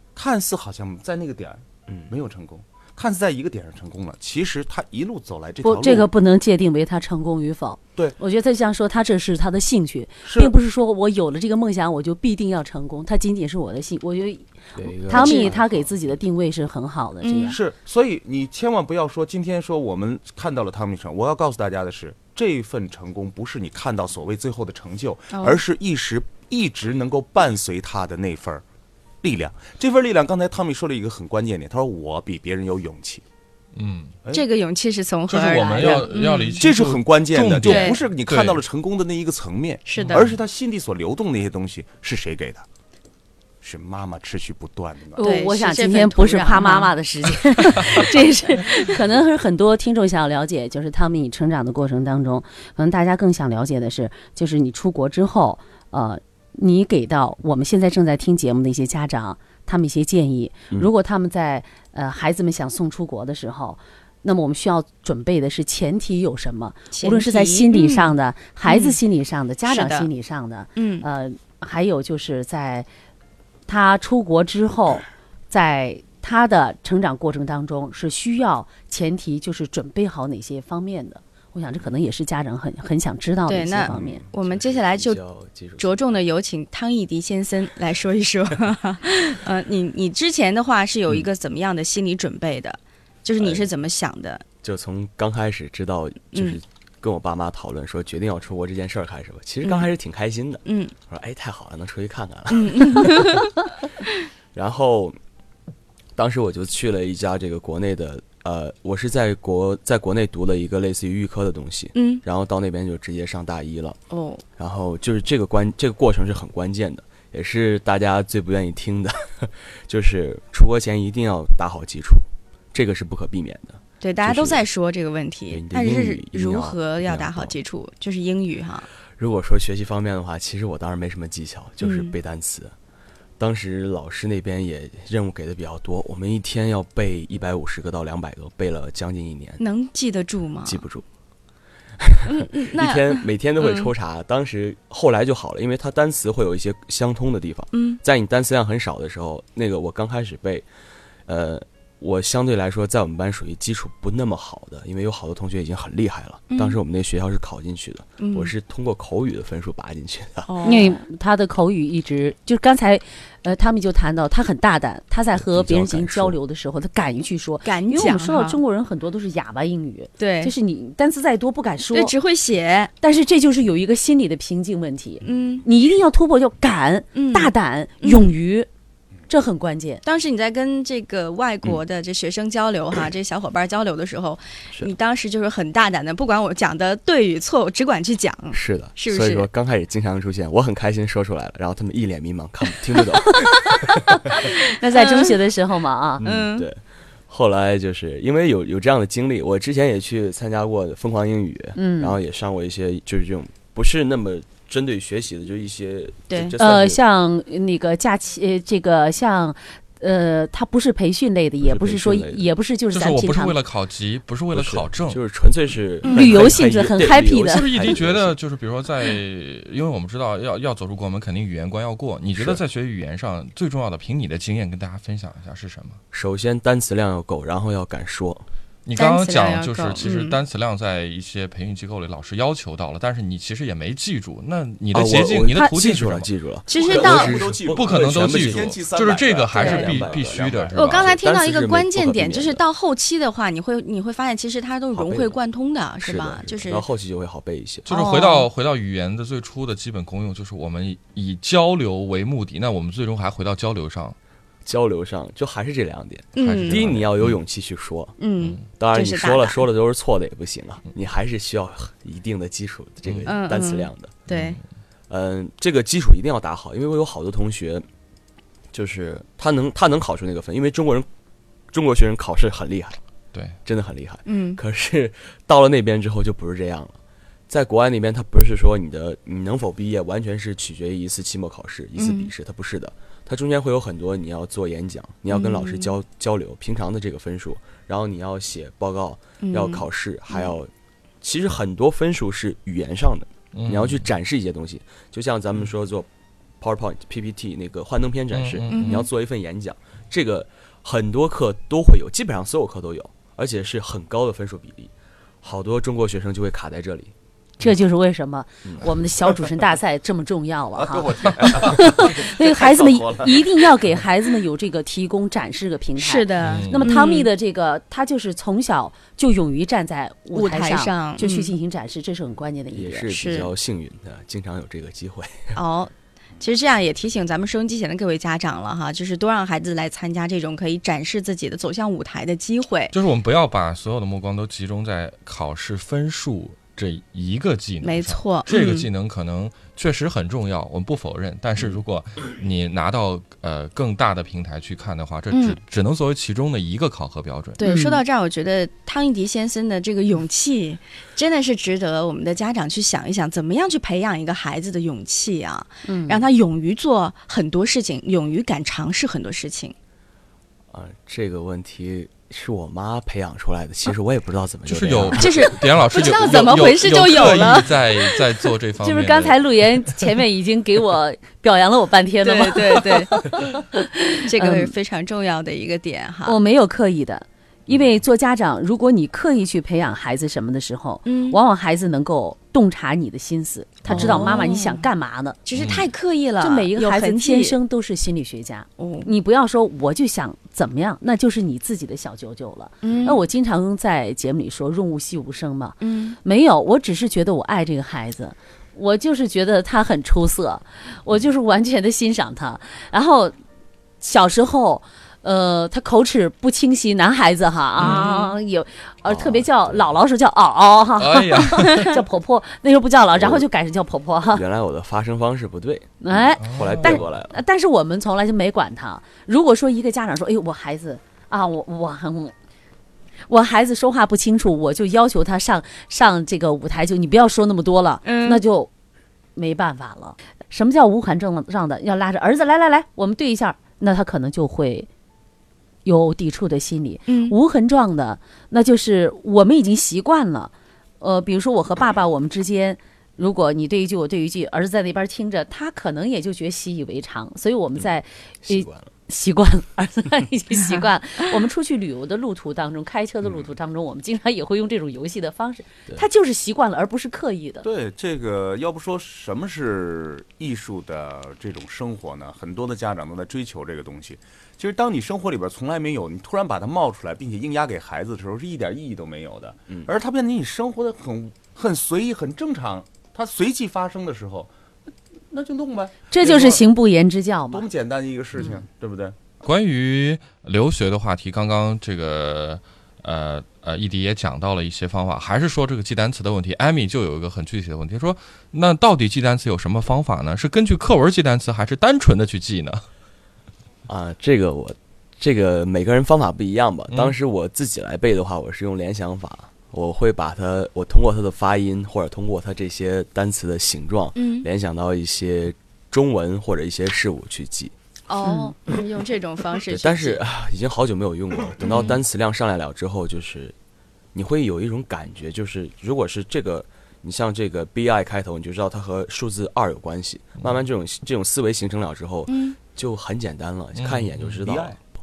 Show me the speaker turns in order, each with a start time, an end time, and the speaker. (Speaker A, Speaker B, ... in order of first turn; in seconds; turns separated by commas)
Speaker A: 0.1-6.1, Speaker B: 1.9-2.1, Speaker C: 5.6-17.6, Speaker A: 10.2-10.5, Speaker B: 14.7-16.1, Speaker D: 15.1-15.5, Speaker D: 17.2-17.6, Speaker A: 17.5-28.6, Speaker D: 25.3-25.6, Speaker A: 29.2-33.2, Speaker E: 33.8-34.1, Speaker D: 34.3-36.6, Speaker E: 35.3-38.6, Speaker A: 36.6-42.6, Speaker D: 37.6-38.0, Speaker D: 39.9-40.3, Speaker E: 40.0-40.3, Speaker A: 43.6-45.2, Speaker C: 45.1-72.9, Speaker D: 45.2-46.9, Speaker D: 48.5-48.9, Speaker D: 66.9-68.1, Speaker D: 68.6-69.0, Speaker D: 69.7-70.1, Speaker D: 70.8-71.0, Speaker C: 73.7-84.2, Speaker D: 83.5-85.2, Speaker B: 83.8-86.2, Speaker D: 85.8-94.4, Speaker B: 93.4-93.7, Speaker B: 94.6-103.4, Speaker D: 96.3-96.6, Speaker D: 100.7-100.9, Speaker D: 102.5-103.5, Speaker B: 104.5-105.2, Speaker B: 106.2-114.0, Speaker D: 111.9-112.2, Speaker D: 114.1-114.4, Speaker B: 114.6-124.6, Speaker D: 124.0-128.9, Speaker B: 125.5-127.5, Speaker B: 129.2-132.7, Speaker D: 131.8-132.1, Speaker B: 133.4-139.6, Speaker D: 139.6-140.8, Speaker B: 140.6-141.0, Speaker B: 142.0-150.7, Speaker D: 142.2-143.9, Speaker D: 147.7-148.0, Speaker B: 151.2-160.8, Speaker D: 156.5-156.8, Speaker D: 158.2-158.5, Speaker D: 160.5-161.0, Speaker C: 160.6-172.1, Speaker B: 165.3-166.3, Speaker D: 167.6-168.6, Speaker D: 170.2-170.5, Speaker D: 171.9-172.9, Speaker C: 173.0-178.7, Speaker D: 175.2-175.6, Speaker D: 177.1-178.3, Speaker C: 179.3-180.0, Speaker D: 180.0-189.5, Speaker B: 188.5-193.9, Speaker C: 194.3-196.2, Speaker D: 194.9-195.4, Speaker B: 196.2-207.0, Speaker D: 196.2-196.7, Speaker C: 201.7-202.2, Speaker D: 206.3-206.6, Speaker C: 206.6-213.6, Speaker B: 211.6-212.5, Speaker E: 212.9-215.2, Speaker B: 214.5-218.4, Speaker D: 216.0-216.4, Speaker C: 216.1-217.7, Speaker E: 217.4-226.0, Speaker B: 222.3-222.6, Speaker B: 226.1-228.4, Speaker E: 228.8-236.3, Speaker D: 228.9-230.4, Speaker B: 234.9-238.8, Speaker D: 236.7-237.4, Speaker A: 236.7-241.1, Speaker E: 237.1-241.1, Speaker B: 239.6-242.6, Speaker D: 240.7-246.8, Speaker B: 244.9-245.4, Speaker B: 246.0-247.9, Speaker E: 247.9-254.2, Speaker D: 247.9-248.5, Speaker B: 254.6-258.2, Speaker D: 256.4-256.9, Speaker E: 256.4-257.4, Speaker D: 258.2-259.6, Speaker B: 258.7-264.2, Speaker E: 263.1-263.4, Speaker D: 263.2-264.6, Speaker E: 264.3-264.6, Speaker B: 265.1-267.9, Speaker B: 268.7-271.1, Speaker B: 271.7-273.0, Speaker B: 273.6-277.0, Speaker D: 274.2-274.6, Speaker B: 277.5-290.7, Speaker D: 281.9-282.3, Speaker D: 285.3-285.9, Speaker D: 289.4-290.5, Speaker B: 291.2-296.1, Speaker E: 293.5-294.1, Speaker B: 296.6-307.1, Speaker E: 298.3-299.0, Speaker D: 298.7-299.1, Speaker C: 307.6-323.2, Speaker B: 308.6-308.9, Speaker A: 310.7-313.7, Speaker D: 316.0-317.3, Speaker E: 316.4-317.0, Speaker D: 320.3-321.5, Speaker B: 322.7-325.6, Speaker D: 323.1-323.5, Speaker D: 325.5-332.9, Speaker E: 332.9-347.6, Speaker D: 337.8-338.9, Speaker D: 345.3-345.6, Speaker D: 347.6-359.7, Speaker C: 347.6-348.0, Speaker C: 355.9-356.2, Speaker B: 360.7-365.6, Speaker E: 364.6-369.4, Speaker D: 365.1-368.2, Speaker C: 368.8-374.7, Speaker D: 372.2-373.3, Speaker D: 374.2-376.4, Speaker C: 376.2-385.4, Speaker D: 381.1-381.4, Speaker D: 383.9-384.9, Speaker D: 385.4-387.6, Speaker E: 385.5-385.9, Speaker C: 386.4-403.3, Speaker D: 388.8-389.1, Speaker D: 392.8-393.2, Speaker D: 395.8-396.2, Speaker C: 404.0-414.4, Speaker E: 407.8-408.1, Speaker D: 407.8-408.3, Speaker B: 409.0-409.9, Speaker E: 411.0-412.0, Speaker B: 413.1-413.4, Speaker B: 414.3-417.4, Speaker C: 416.0-422.3, Speaker E: 416.4-417.0, Speaker C: 423.3-428.7, Speaker D: 428.0-428.4, Speaker C: 429.4-434.9, Speaker C: 435.8-457.6, Speaker D: 437.1-437.4, Speaker B: 448.4-448.9, Speaker A: 457.6-474.5, Speaker A: 475.3-476.6, Speaker C: 476.1-477.7, Speaker A: 477.5-479.3, Speaker E: 479.4-492.8, Speaker B: 493.9-507.7, Speaker D: 504.1-504.5, Speaker D: 508.1-510.2, Speaker C: 508.2-508.5, Speaker B: 509.7-513.5, Speaker D: 511.6-512.0, Speaker B: 514.1-524.8, Speaker D: 522.3-522.5, Speaker E: 523.8-524.4, Speaker A: 524.4-524.8